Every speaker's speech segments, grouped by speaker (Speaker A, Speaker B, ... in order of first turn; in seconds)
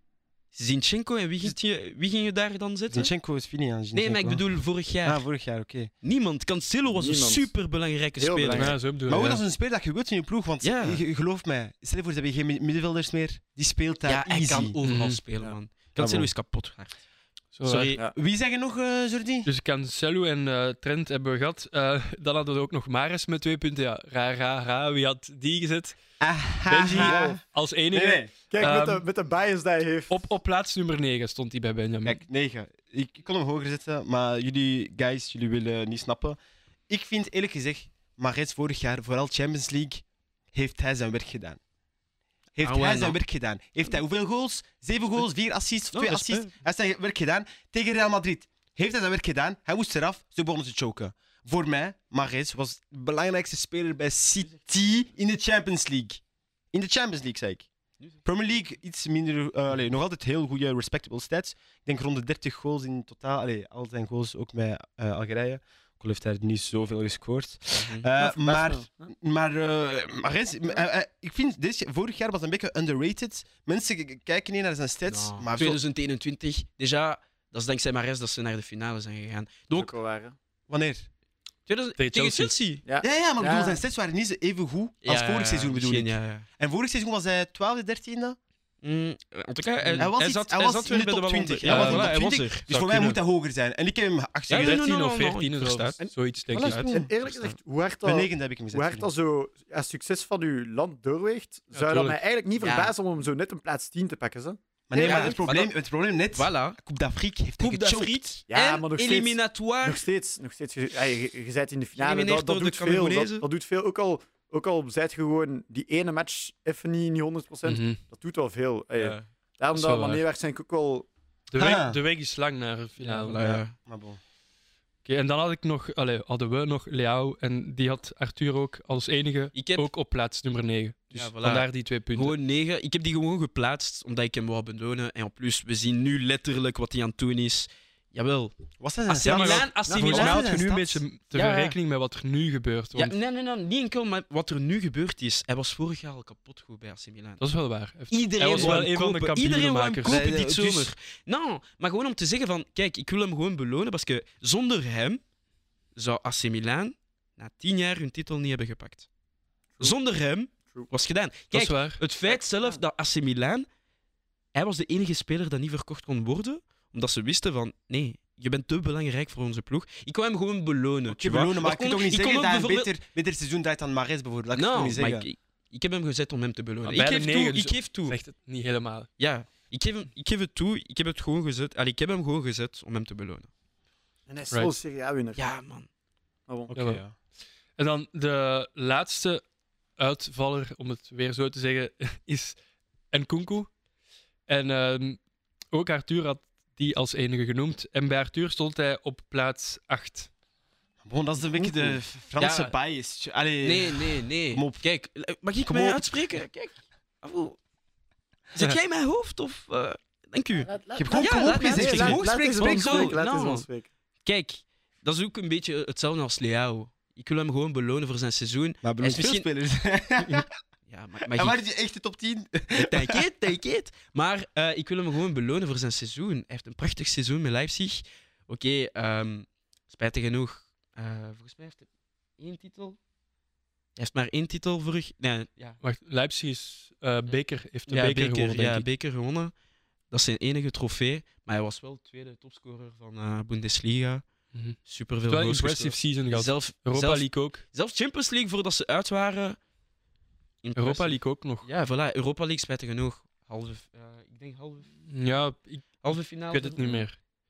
Speaker A: 0.5-3.1, 3.9-5.2, 6.0-8.7, 10.6-11.0, 14.1-17.0, 17.6-18.0, 42.6-43.2, 45.9-46.5, 67.7-68.1, 75.1-79.9, 81.7-82.8, 85.0-86.5, 88.8-92.6, 94.5-96.0, 96.5-97.6, 102.6-102.9, 104.9-105.8, 106.3-106.8, 107.6-110.0, 112.0-113.5, 119.0-119.3, 123.0-123.8, 129.5-129.9, 131.1-138.6, 139.1-140.5, 141.3-141.8, 142.9-147.4, 148.1-155.2, 155.9-159.1, 159.8-163.7, 164.5-172.9, 174.5-178.2, 179.2-183.5, 185.3-185.9, 201.8-202.7, 203.6-207.6, 208.5-213.7, 214.2-219.5, 220.9-221.6, 222.8-233.0, 234.0-235.8, 237.9-239.5, 240.1-244.3, 244.8-249.6, 250.6-254.9, 256.0-257.1
Speaker B: 2.9-4.5, 5.0-5.9, 9.1-14.8, 16.0-16.3, 18.1-19.5, 26.2-27.4, 27.9-28.3, 32.0-36.4, 36.9-41.6, 42.5-56.2, 56.7-57.7, 58.2-75.8, 80.7-81.1, 83.0-88.4, 90.0-94.8, 96.5-97.1, 98.0-99.1, 104.9-108.4, 121.6-122.0, 123.4-124.2, 138.8-141.0, 150.1-150.9, 171.1-175.3, 186.7-187.1, 201.0-204.8, 205.7-206.0, 210.9-213.2, 218.8-220.5, 221.3-223.2
Speaker C: 6.9-7.5, 8.2-8.8, 26.9-27.4, 28.5-30.2, 68.2-69.1, 79.7-80.3, 82.8-83.8, 96.9-105.4, 108.5-121.1, 139.9-140.2, 162.3-162.8, 184.3-185.4, 210.6-213.9
Speaker D: 8.5-9.4, 14.8-15.2, 17.6-17.9, 19.5-26.0, 26.7-29.0, 30.1-32.2, 82.0-82.5, 91.7-93.2, 94.5-96.8, 101.7-102.2, 117.7-118.0, 119.7-120.2, 121.5-123.4, 125.0-132.3, 139.2-143.2, 147.4-150.2, 161.5-162.0, 176.8-179.1, 186.7-187.0, 187.8-189.4, 190.0-192.6, 193.1-193.7, 194.5-195.2, 195.7-200.3, 235.8-238.9, 244.5-247.6, 250.8-251.7, 255.1-257.2